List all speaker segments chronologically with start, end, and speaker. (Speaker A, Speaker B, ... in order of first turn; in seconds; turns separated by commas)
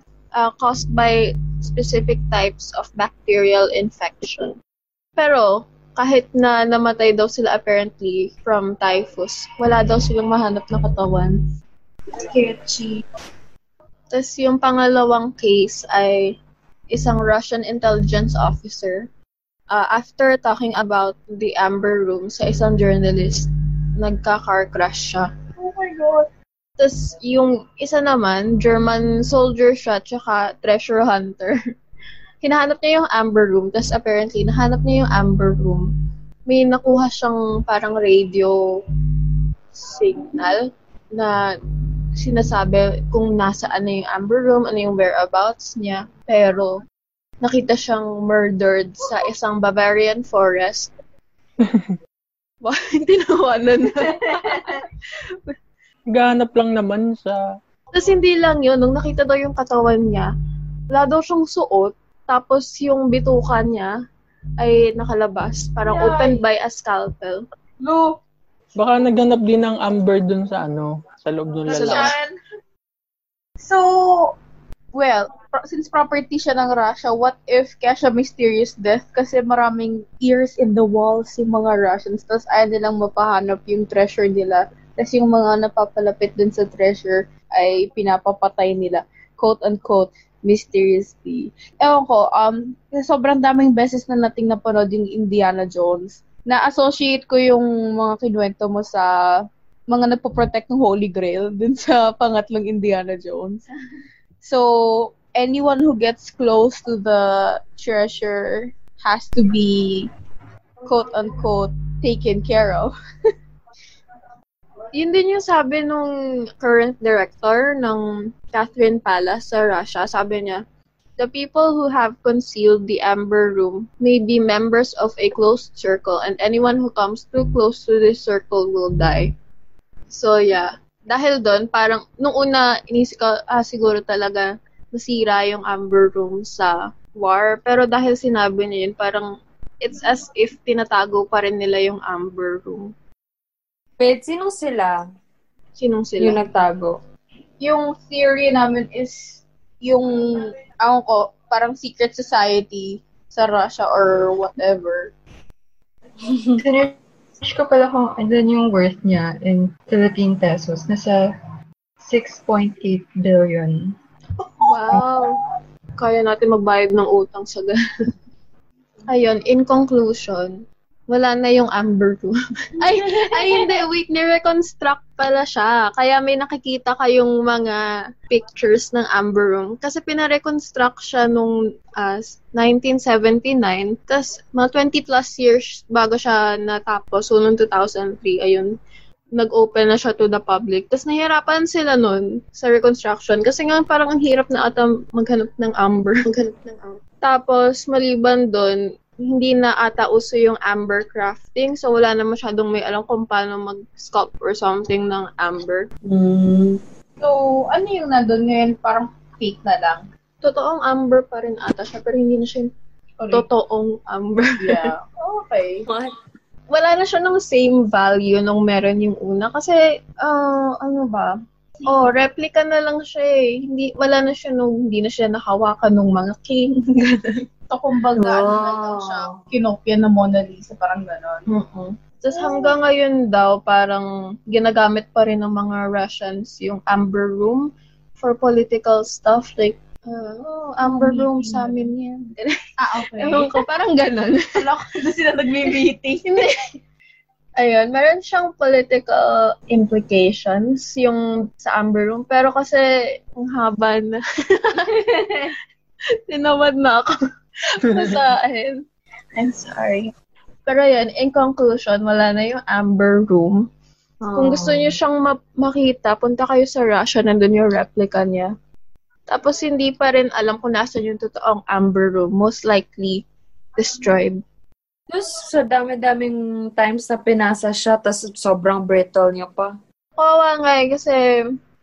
Speaker A: 0.3-4.5, Speaker A: 5.2-11.4, Speaker B: 12.3-13.0, Speaker A: 14.1-16.4, Speaker A: 16.9-19.1, Speaker A: 19.7-23.5, Speaker A: 24.0-25.3, Speaker B: 25.7-26.2, Speaker A: 26.8-31.6, Speaker A: 32.4-35.9, Speaker A: 36.5-38.6, Speaker A: 39.7-41.5, Speaker A: 42.2-46.8, Speaker A: 47.4-50.9, Speaker A: 52.6-54.9, Speaker B: 54.4-54.8, Speaker C: 56.1-57.4, Speaker A: 57.9-60.3, Speaker A: 60.9-63.9, Speaker A: 64.6-67.4, Speaker B: 65.8-66.5, Speaker B: 67.8-68.2, Speaker C: 68.8-72.2, Speaker B: 71.7-72.3, Speaker A: 71.8-72.2, Speaker B: 73.6-74.3, Speaker B: 74.9-99.1, Speaker B: 99.9-103.6, Speaker B: 104.4-110.1, Speaker B: 110.8-113.0, Speaker A: 115.0-120.6, Speaker A: 121.2-129.3, Speaker A: 130.1-139.3, Speaker A: 139.8-142.9, Speaker D: 144.0-145.0, Speaker A: 145.8-146.4, Speaker D: 146.2-147.0, Speaker B: 147.6-155.1, Speaker E: 156.6-161.2, Speaker E: 162.0-163.9, Speaker A: 164.6-165.3, Speaker A: 166.0-167.8, Speaker A: 169.1-188.7, Speaker A: 189.4-205.9, Speaker D: 206.1-206.8, Speaker B: 207.2-210.1, Speaker A: 210.4-212.7, Speaker B: 213.2-213.4, Speaker A: 213.3-214.9, Speaker B: 214.6-215.9, Speaker D: 215.9-216.2, Speaker A: 216.7-221.3, Speaker A: 221.9-227.4, Speaker B: 227.7-231.5, Speaker D: 228.2-229.4, Speaker A: 231.5-242.5, Speaker B: 240.8-241.8, Speaker B: 242.8-243.6, Speaker A: 243.1-244.5, Speaker B: 244.6-246.3, Speaker A: 246.3-246.6, Speaker A: 247.6-252.8, Speaker A: 253.4-254.9, Speaker A: 256.3-257.1, Speaker A: 257.8-258.8, Speaker A: 259.4-260.1, Speaker A: 260.7-263.6, Speaker D: 264.2-265.0, Speaker A: 264.4-268.5, Speaker A: 269.3-273.2, Speaker A: 273.8-274.4, Speaker D: 275.1-279.7, Speaker A: 280.2-281.2